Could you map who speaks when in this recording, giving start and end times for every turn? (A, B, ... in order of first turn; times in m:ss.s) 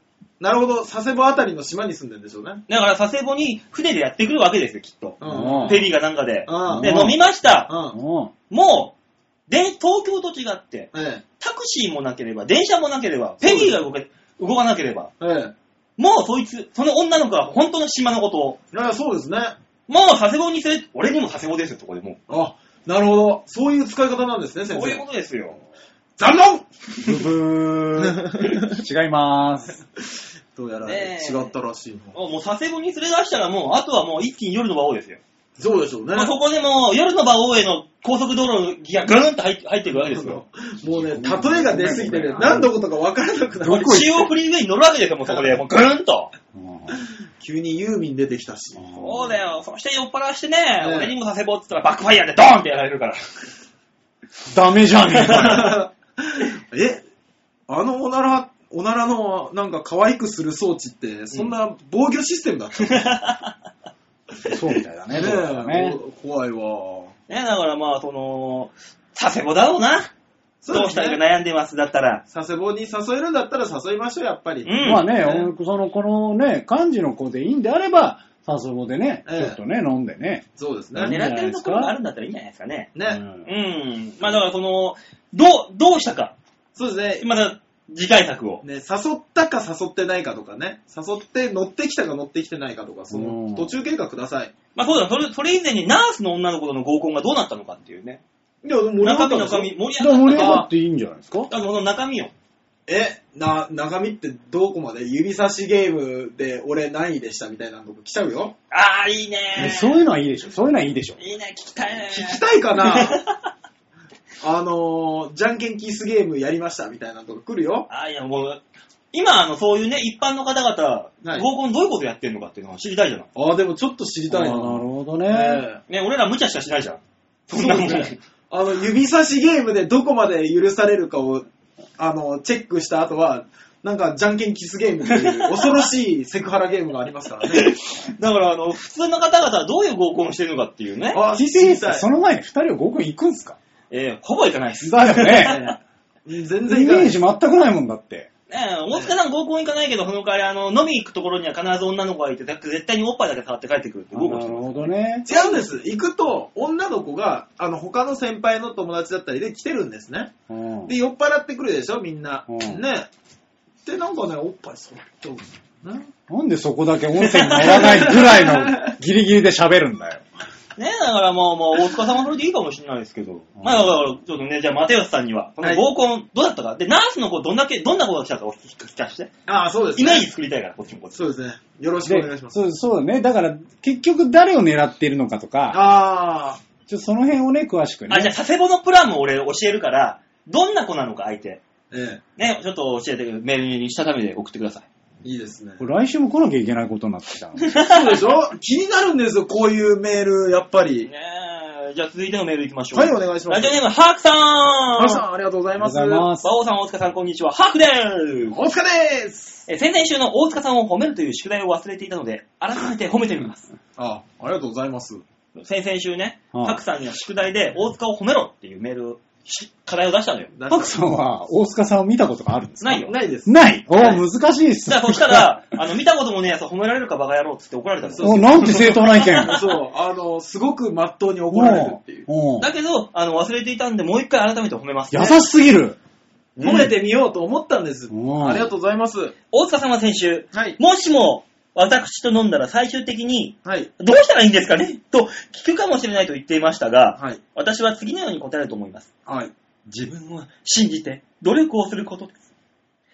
0:00.4-0:02.6 A
0:02.7-0:07.7 B
0:05.2-0:05.9 A
0:05.2-0:05.8 C
0:06.5-0:07.1 A
0:06.6-0:07.2 C
0:07.7-0:08.0 A
0:07.9-0:08.3 C
0:08.5-0:08.9 B
0:09.5-0:15.1 B
0:10.9-0:11.2 A
0:13.4-0:13.8 A
0:15.2-0:15.5 A
0:16.0-0:18.6 B
0:18.7-0:19.6 A
0:19.9-0:22.2 B
0:22.3-0:25.0 A
0:24.7-0:25.6 B
0:26.2-0:27.2 A
0:27.0-0:29.8 C
0:28.0-0:28.7 A
0:30.5-0:32.1 A
0:30.8-0:31.5 B
0:32.1-0:35.2 B
0:35.6-0:36.3 A
0:36.1-0:40.4 B
0:39.9-0:44.0 A
0:40.9-0:42.7 C
0:43.6-0:44.3 C
0:43.7-0:46.3 B
0:46.5-0:47.0 C
0:47.4-0:48.9 A
0:48.8-0:49.3 C
0:48.9-0:53.2 B
0:50.8-0:51.1 A
0:54.5-0:55.8 C
0:55.1-0:55.7 B
0:55.3-0:57.0 A
0:57.7-1:03.1 A
1:02.8-1:03.5 B
1:04.4-1:06.0 C
1:05.1-1:07.1 A
1:07.3-1:10.1 B
1:10.6-1:11.2 A
1:10.7-1:12.2 B
1:12.3-1:14.7 A
1:14.6-1:15.5 B
1:14.8-1:21.9 C
1:19.2-1:19.6 A
1:20.6-1:21.2 A
1:21.0-1:26.3 B
1:22.9-1:23.2 A
1:23.0-1:23.4 C
1:26.8-1:27.3 A
1:27.2-1:28.6 B
1:28.6-1:34.5 A
1:33.1-1:33.7 C
1:34.7-1:38.2 B
1:38.6-1:39.7 A
1:39.0-1:40.7 B
1:40.0-1:41.5 C
1:40.3-1:40.7 A
1:41.5-1:42.3 B
1:42.9-1:48.6 A
1:48.7-1:50.0 B
1:49.6-1:51.2 C
1:51.2-1:53.4 B
1:52.1-1:53.2 A
1:54.4-1:57.9 A
1:57.9-2:03.3 B
2:03.3-2:05.8 A
2:04.3-2:05.6 C
2:05.9-2:08.2 B
2:07.5-2:11.4 A
2:12.0-2:17.7 A
2:15.1-2:15.7 B
2:17.5-2:21.2 B
2:21.1-2:22.0 A
2:21.4-2:23.6 C
2:23.9-2:25.7 B
2:24.8-2:25.6 C
2:25.2-2:27.2 A
2:26.6-2:28.3 C
2:28.5-2:35.6 B
2:34.1-2:35.3 C
2:35.2-2:40.3 A
2:40.5-2:40.9 C
2:40.8-2:43.1 A
2:42.5-2:42.8 C
2:43.8-2:46.1 A
2:46.3-2:50.2 C
2:47.2-2:48.0 B
2:47.8-2:48.9 A
2:50.8-2:59.3 B
2:53.6-2:53.9 C
2:59.5-3:00.3 A
3:00.0-3:01.2 B
3:01.1-3:02.6 A
3:02.0-3:05.8 C
3:05.7-3:06.6 A
3:06.9-3:08.3 C
3:08.1-3:11.6 B
3:11.9-3:12.2 A
3:12.4-3:14.8 B
3:15.2-3:15.8 A
3:15.8-3:17.7 C
3:17.6-3:18.2 B
3:17.8-3:21.1 A
3:21.0-3:25.2 B
3:22.9-3:23.8 A
3:25.0-3:26.3 A
3:25.7-3:26.5 C
3:26.4-3:28.6 B
3:28.5-3:29.6 A
3:29.7-3:33.6 B
3:34.0-3:35.2 A
3:35.6-3:40.5 B
3:36.5-3:36.8 C
3:40.5-3:40.9 A
3:40.7-3:45.6 C
3:42.8-3:43.1 B
3:43.0-3:43.5 A
3:44.8-3:49.6 B
3:48.0-3:52.3 A
3:48.2-3:49.6 C
3:51.5-3:52.7 C
3:52.6-3:55.4 B
3:55.1-3:56.0 C
3:56.6-3:59.3 A
3:56.6-3:56.9 C
3:58.1-3:58.7 C
3:59.5-4:09.1 B
4:00.5-4:00.8 A
4:03.6-4:03.9 A
4:09.2-4:09.5 A
4:09.9-4:12.4 B